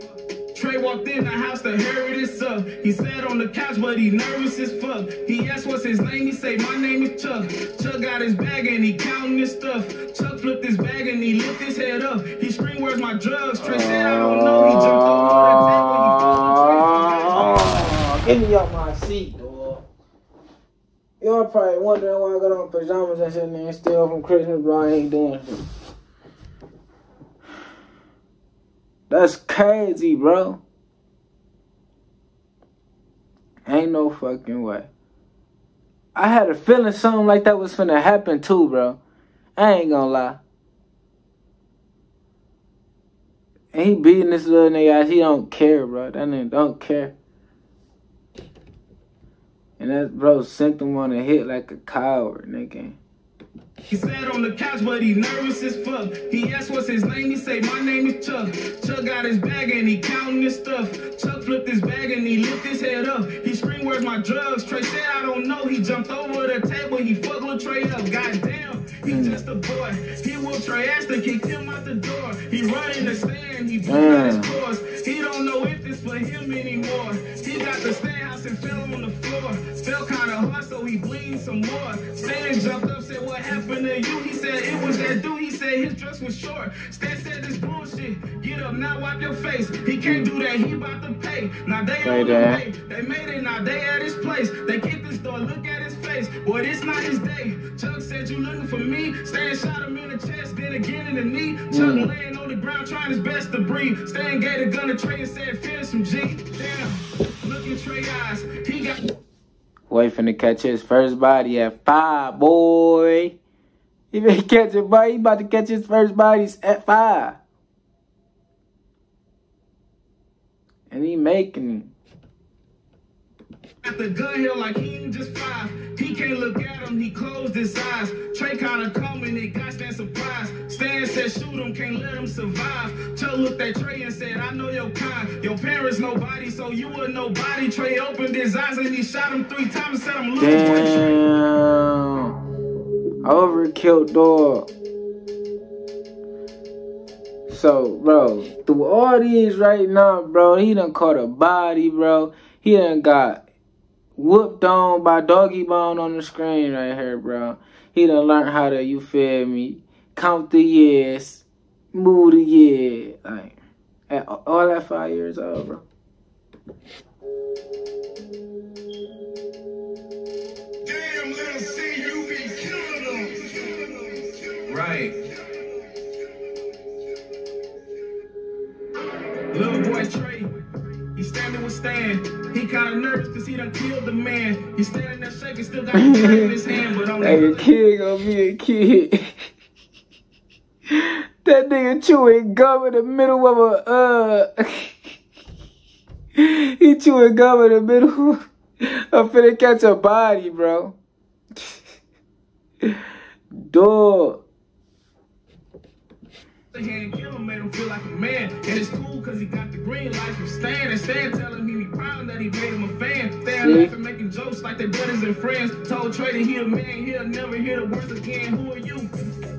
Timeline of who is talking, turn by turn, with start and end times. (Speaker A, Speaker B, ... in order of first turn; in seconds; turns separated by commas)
Speaker A: 0.5-17.7, Speaker B: 13.6-19.8, Speaker B: 21.2-25.6, Speaker B: 29.1-30.6, Speaker B: 33.6-34.9, Speaker B: 36.1-39.0, Speaker B: 39.5-40.4, Speaker B: 43.7-47.1, Speaker B: 49.8-53.0, Speaker A: 53.9-109.0, Speaker B: 69.1-69.4, Speaker B: 73.9-74.5, Speaker B: 92.0-92.6, Speaker B: 101.7-102.1, Speaker B: 109.9-113.3, Speaker B: 114.1-117.4, Speaker B: 120.9-121.9, Speaker A: 123.8-141.2, Speaker B: 140.4-142.3, Speaker B: 143.2-144.7, Speaker B: 147.5-153.4, Speaker B: 154.2-163.6, Speaker B: 164.1-165.8, Speaker C: 170.8-174.6, Speaker A: 174.7-175.2, Speaker A: 179.5-180.5, Speaker A: 181.1-187.7, Speaker B: 185.9-186.5, Speaker B: 187.2-189.5, Speaker B: 190.9-195.2, Speaker B: 196.3-200.9, Speaker B: 203.5-204.4, Speaker A: 206.7-219.1, Speaker B: 213.5-213.9